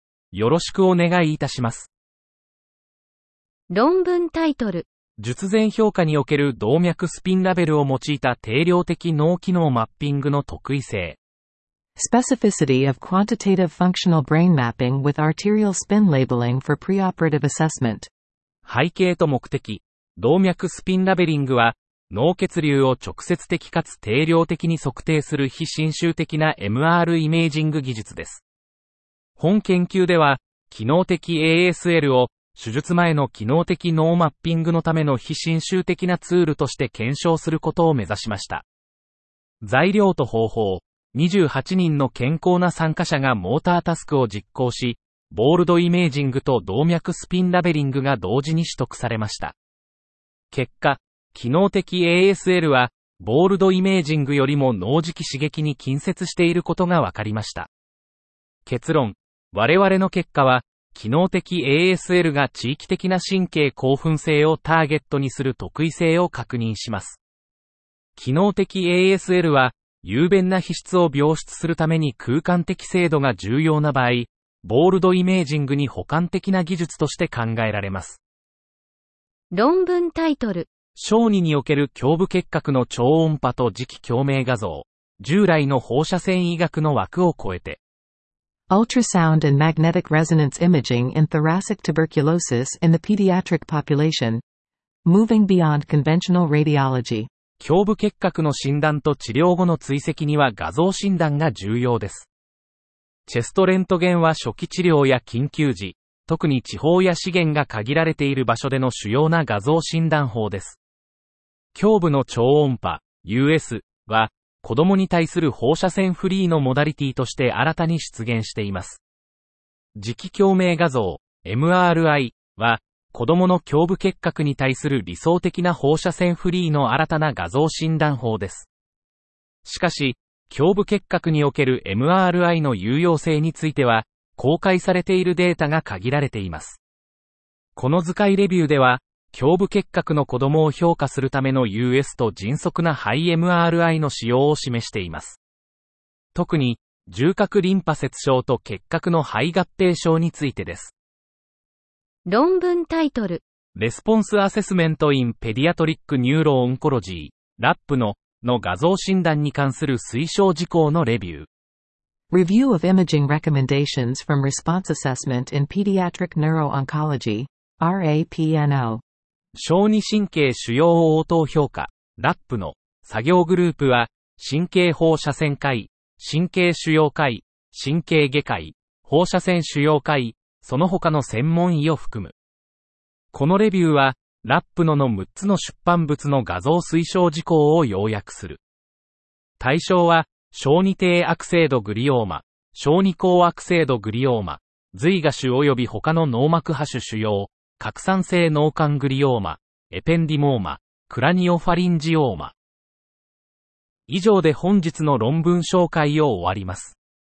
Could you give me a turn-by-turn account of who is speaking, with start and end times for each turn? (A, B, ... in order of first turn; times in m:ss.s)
0:00.3-0:01.9 A
0:03.7-0:04.9 B
0:05.2-0:11.2 A
0:12.0-0:18.1 C
0:18.7-0:28.4 A
0:29.4-0:38.6 A
0:39.6-0:49.6 A
0:50.5-0:57.7 A
0:58.7-1:07.2 A
1:08.2-1:18.2 A
1:19.5-1:20.7 B
1:21.0-1:27.8 A
1:28.7-1:34.4 C
1:35.1-1:37.3 C
1:37.6-1:42.3 A
1:43.3-1:50.8 A
1:51.8-1:59.0 A
2:00.0-2:08.7 A
2:09.6-2:16.8 A
2:17.8-2:25.4 A
2:26.4-2:30.9 A
2:32.3-2:33.4 B
2:33.8-2:41.5 A
2:42.3-2:49.0 C
2:49.6-3:02.3 A
3:03.3-3:08.6 A
3:09.6-3:22.5 A
3:24.1-3:27.0 A